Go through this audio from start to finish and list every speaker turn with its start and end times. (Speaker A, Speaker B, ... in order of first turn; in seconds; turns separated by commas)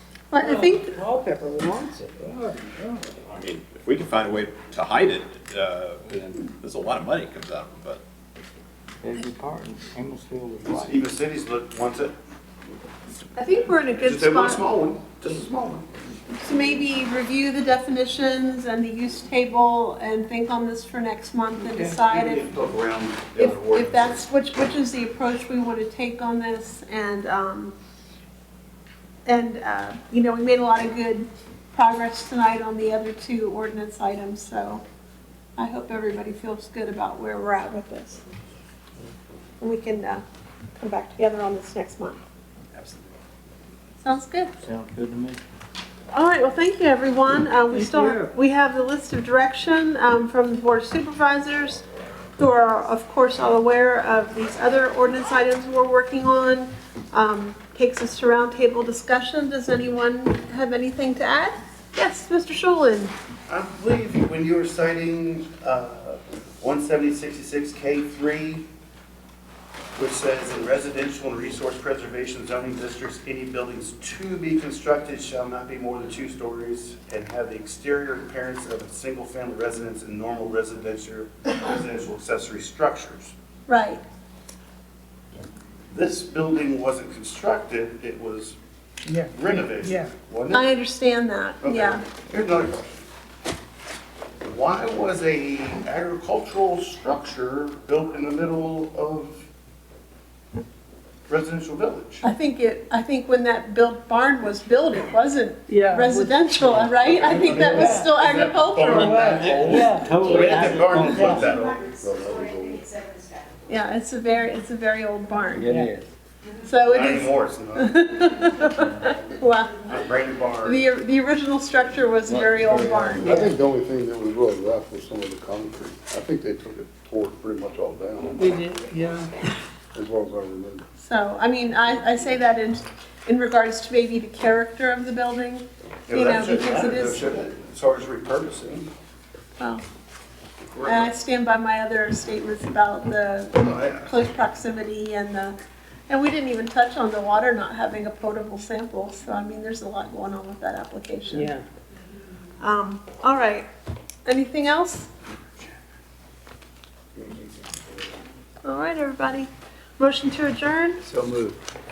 Speaker A: 0.3-1.0, Speaker B: 0.4-3.0, Speaker C: 2.7-2.9, Speaker D: 3.3-8.0, Speaker C: 9.0-11.1, Speaker E: 10.7-12.1, Speaker A: 13.4-14.6, Speaker E: 14.0-15.9, Speaker A: 16.3-22.5, Speaker E: 21.6-24.3, Speaker A: 23.4-27.8, Speaker A: 29.2-34.8, Speaker A: 35.6-38.2, Speaker A: 39.6-40.2, Speaker A: 40.8-42.2, Speaker A: 44.0-44.5, Speaker C: 44.6-45.4, Speaker A: 46.1-51.8, Speaker B: 47.7-48.3, Speaker A: 52.4-63.1, Speaker E: 63.5-68.7, Speaker E: 70.0-83.3, Speaker A: 83.7-84.0, Speaker E: 85.9-88.6, Speaker B: 89.0-90.1, Speaker E: 89.3-90.7, Speaker A: 90.5-92.0, Speaker E: 91.6-93.0, Speaker E: 94.4-99.5, Speaker E: 101.3-102.2, Speaker A: 102.2-109.4, Speaker B: 105.7-108.2, Speaker E: 107.0-111.8, Speaker C: 108.9-111.4, Speaker B: 108.9-111.6, Speaker F: 111.3-112.9, Speaker A: 113.7-115.7, Speaker C: 115.5-116.0, Speaker A: 116.7-119.8, Speaker E: 116.9-117.9, Speaker E: 119.8-120.8, Speaker A: 120.6-123.5, Speaker C: 122.3-123.5, Speaker F: 123.2-128.5, Speaker B: 128.4-129.3, Speaker F: 129.9-130.8, Speaker A: 131.0-137.3, Speaker E: 136.1-138.9, Speaker E: 140.8-141.1, Speaker A: 140.8-145.6, Speaker E: 143.6-144.1, Speaker A: 146.1-151.6, Speaker B: 151.3-151.7, Speaker A: 152.6-153.7, Speaker A: 154.3-155.1, Speaker A: 158.6-161.0, Speaker E: 161.1-161.5